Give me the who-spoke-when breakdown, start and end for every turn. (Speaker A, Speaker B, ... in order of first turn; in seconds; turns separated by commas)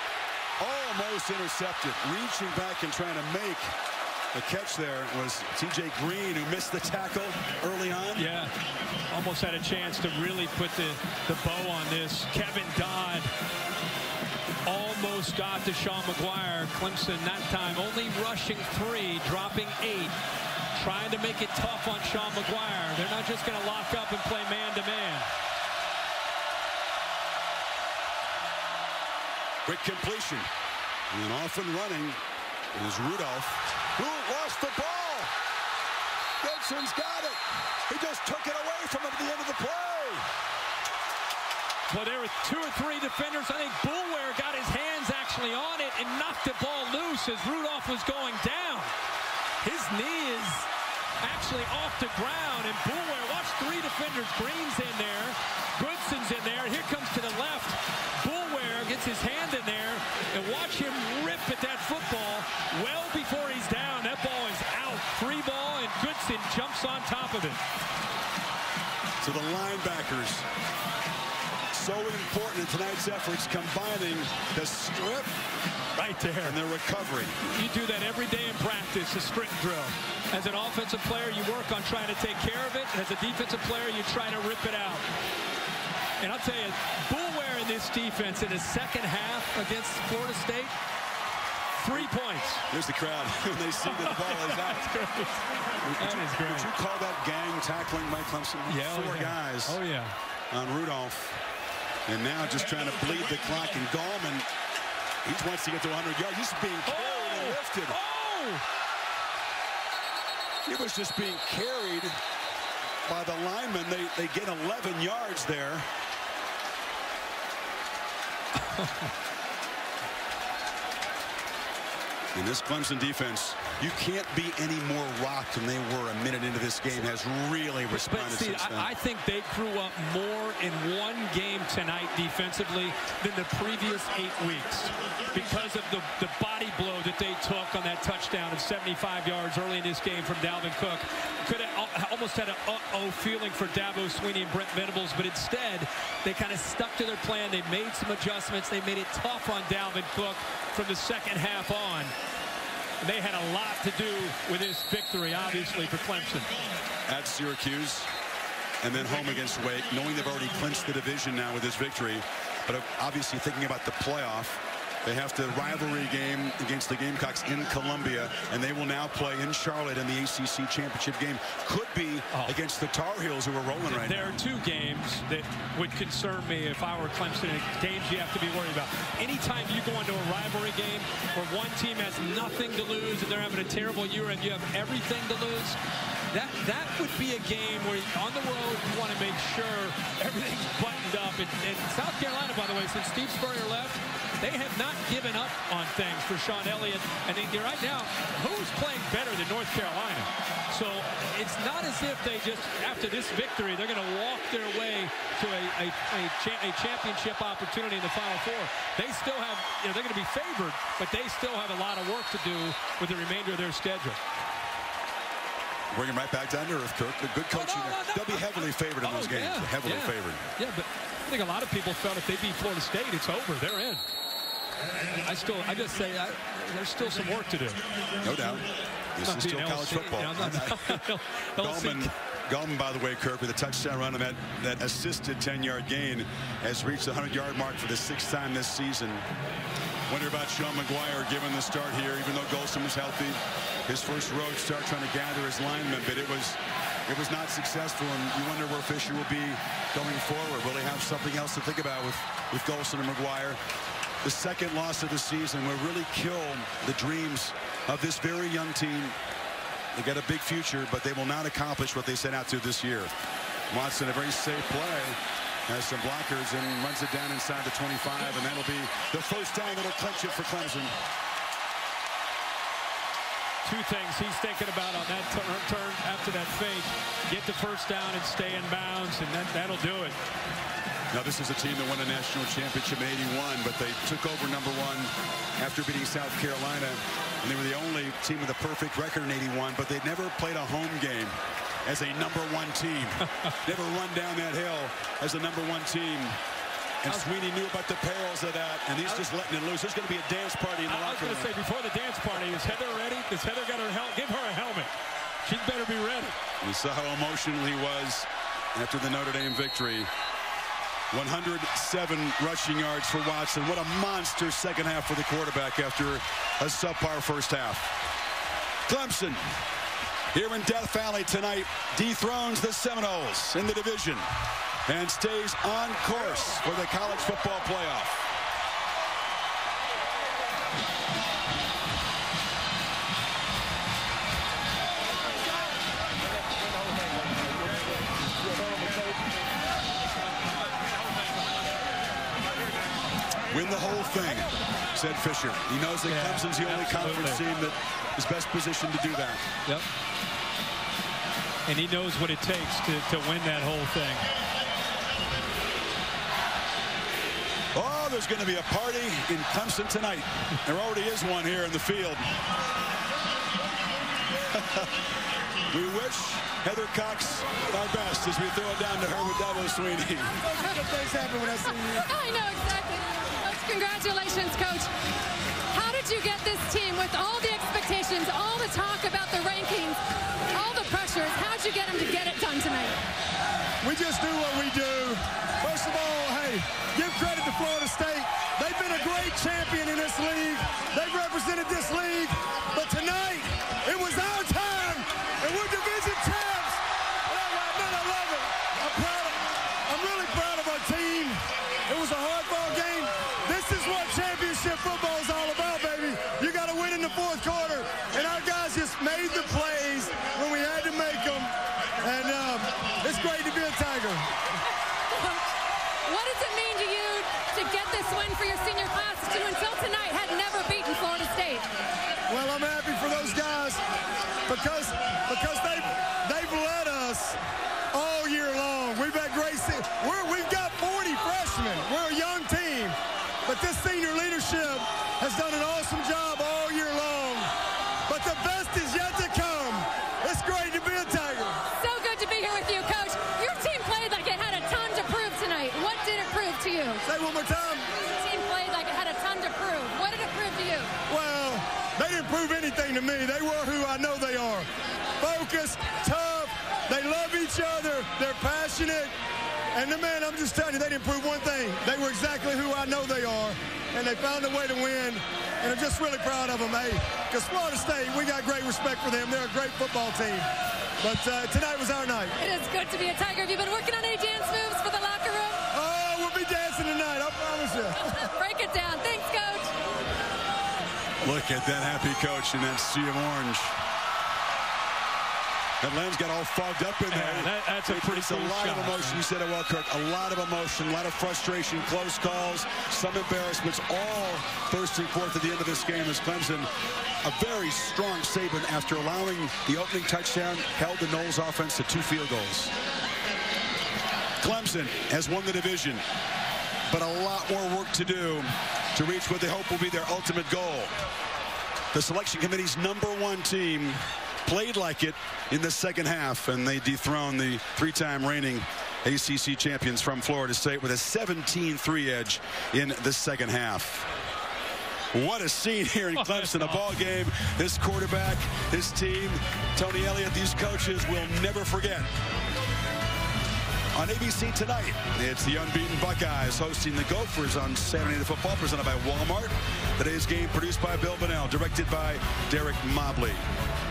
Speaker A: 0.6-3.7, Speaker A: 4.3-8.3, Speaker B: 8.2-8.5, Speaker B: 9.1-13.3, Speaker B: 14.7-20.1, Speaker B: 20.7-25.3, Speaker A: 29.6-30.5, Speaker A: 31.1-32.2, Speaker A: 32.7-35.3, Speaker A: 36.4-40.3, Speaker B: 41.9-48.9, Speaker B: 49.6-50.7, Speaker B: 51.2-67.6, Speaker A: 69.2-70.5, Speaker A: 71.7-75.4, Speaker B: 76.0-76.6, Speaker A: 76.4-77.4, Speaker B: 77.4-85.1, Speaker B: 86.2-90.7, Speaker B: 91.8-92.7, Speaker A: 92.7-95.0, Speaker B: 93.9-95.4, Speaker A: 95.8-99.8, Speaker B: 96.0-96.7, Speaker B: 98.7-100.1, Speaker A: 100.5-101.4, Speaker A: 102.1-104.5, Speaker A: 105.2-108.0, Speaker B: 106.9-108.6, Speaker A: 110.7-112.2, Speaker A: 113.1-115.9, Speaker B: 118.5-119.1, Speaker A: 122.3-128.9, Speaker B: 127.9-152.1, Speaker B: 153.0-156.5, Speaker A: 157.1-158.1, Speaker A: 158.8-174.4, Speaker B: 173.9-185.8, Speaker B: 186.3-214.2, Speaker A: 215.9-220.4, Speaker B: 217.5-224.1, Speaker B: 225.2-227.8, Speaker A: 228.2-231.0, Speaker B: 229.2-232.1, Speaker A: 231.6-239.3, Speaker A: 240.1-253.6, Speaker A: 254.2-259.2, Speaker A: 259.9-263.1, Speaker A: 263.7-270.9, Speaker B: 273.6-280.2, Speaker A: 281.1-296.4, Speaker B: 293.3-293.5, Speaker A: 297.0-301.6, Speaker B: 300.9-304.9, Speaker B: 305.4-306.4, Speaker A: 306.6-310.1, Speaker A: 311.1-317.9, Speaker A: 318.9-319.5, Speaker A: 320.3-324.3, Speaker A: 324.9-328.2, Speaker A: 343.5-349.4, Speaker B: 346.1-347.4, Speaker B: 351.7-354.3, Speaker A: 357.8-362.3, Speaker A: 364.5-364.9, Speaker A: 365.7-370.6, Speaker C: 370.6-374.9, Speaker D: 370.7-371.6, Speaker C: 375.7-380.0, Speaker C: 380.5-383.0, Speaker D: 383.8-414.3, Speaker C: 415.1-415.5, Speaker C: 416.1-421.7, Speaker D: 422.3-423.8, Speaker D: 424.5-427.4, Speaker D: 427.9-437.5, Speaker D: 438.1-441.6, Speaker C: 441.7-447.0, Speaker D: 447.1-447.9, Speaker C: 448.0-450.9, Speaker D: 451.1-454.7, Speaker D: 455.2-459.1, Speaker D: 459.7-470.5, Speaker D: 471.0-472.4, Speaker C: 472.4-475.6, Speaker D: 475.7-478.0, Speaker C: 478.0-479.7, Speaker A: 481.2-483.8, Speaker A: 485.8-496.7, Speaker B: 487.1-489.2, Speaker A: 497.2-502.7, Speaker A: 504.4-506.0, Speaker A: 506.9-510.9, Speaker A: 511.9-524.1, Speaker A: 525.1-532.1, Speaker B: 526.1-526.8, Speaker A: 533.9-543.5